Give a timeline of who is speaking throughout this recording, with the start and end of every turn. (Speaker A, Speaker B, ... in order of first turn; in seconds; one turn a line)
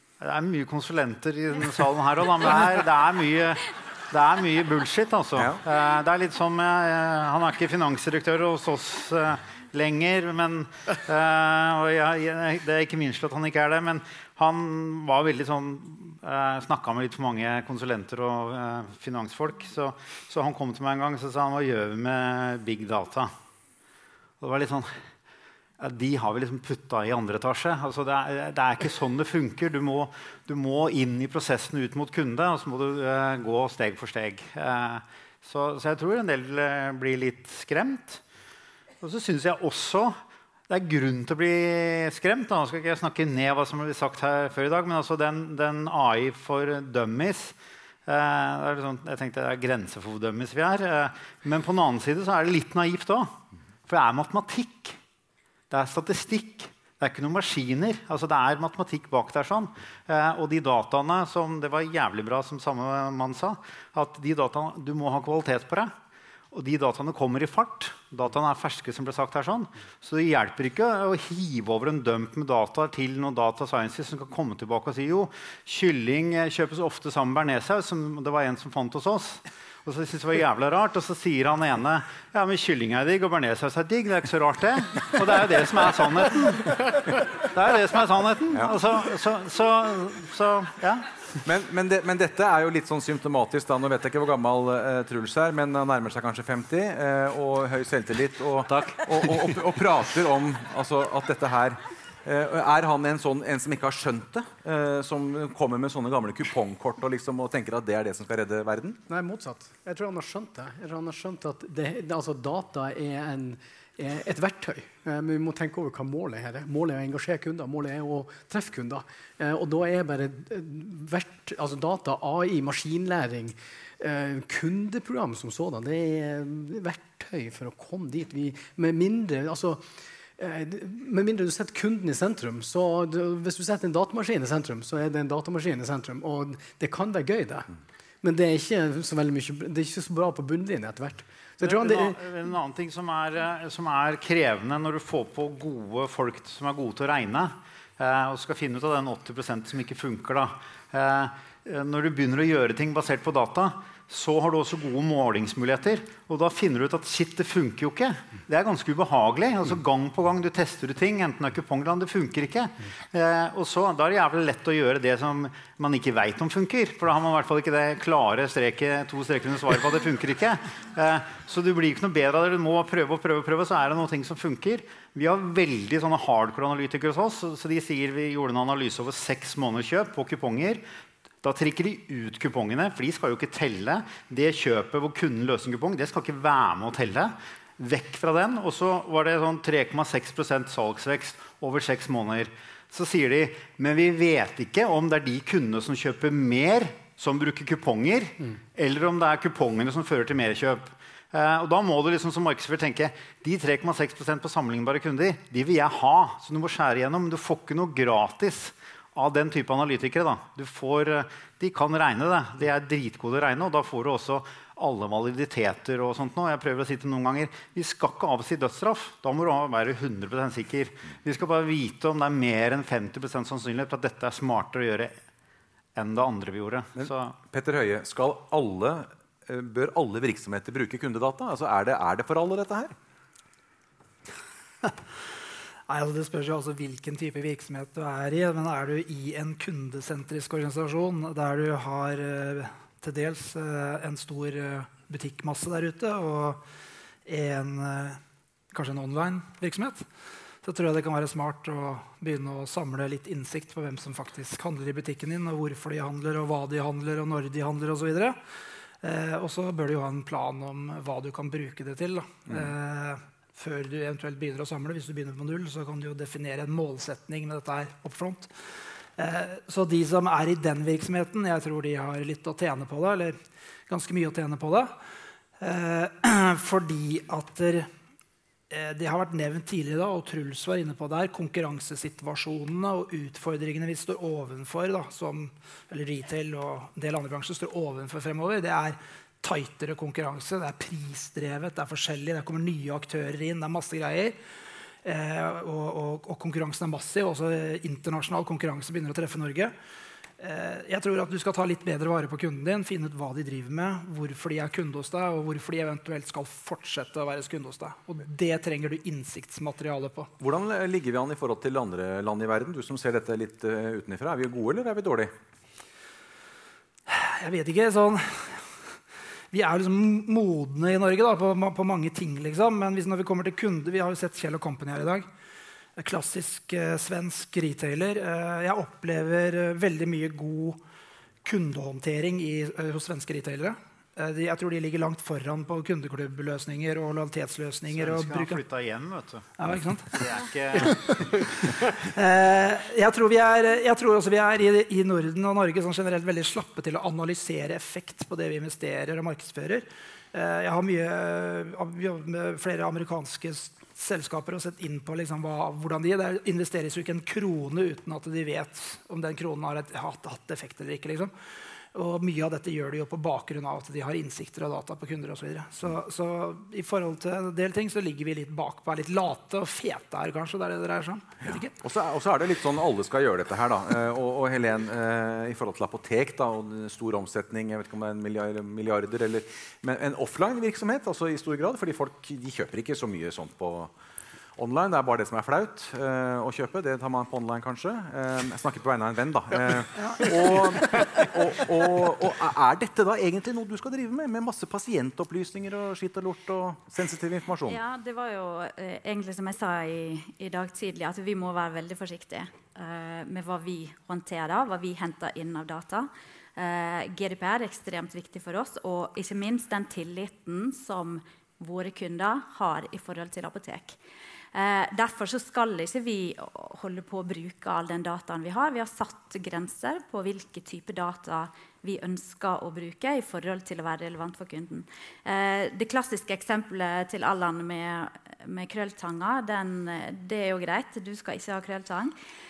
Speaker A: 0.2-23.3
Speaker B: 5.4-5.6
Speaker A: 24.4-25.0
Speaker A: 25.8-38.2
Speaker A: 39.0-40.2
Speaker A: 40.7-47.5
Speaker A: 48.1-53.3
Speaker A: 53.9-55.0
Speaker A: 55.7-65.9
Speaker A: 66.5-91.1
Speaker B: 91.4-109.0
Speaker C: 109.1-137.7
Speaker C: 138.2-142.2
Speaker A: 141.6-180.8
Speaker A: 181.4-225.1
Speaker A: 226.0-227.4
Speaker B: 227.0-232.9
Speaker D: 235.9-246.6
Speaker D: 247.3-248.2
Speaker D: 248.7-250.1
Speaker D: 250.6-258.4
Speaker D: 259.0-274.9
Speaker D: 275.6-277.9
Speaker D: 278.7-294.4
Speaker D: 295.0-299.7
Speaker D: 300.4-310.3
Speaker B: 310.4-315.3
Speaker D: 317.1-318.7
Speaker D: 319.5-325.3
Speaker D: 326.0-330.8
Speaker D: 331.4-338.6
Speaker A: 337.9-339.5
Speaker D: 339.6-340.2
Speaker A: 340.1-341.5
Speaker D: 342.0-361.3
Speaker D: 361.9-371.8
Speaker B: 371.4-383.9
Speaker B: 384.6-397.8
Speaker D: 390.0-390.4
Speaker E: 397.7-414.0
Speaker E: 414.5-432.1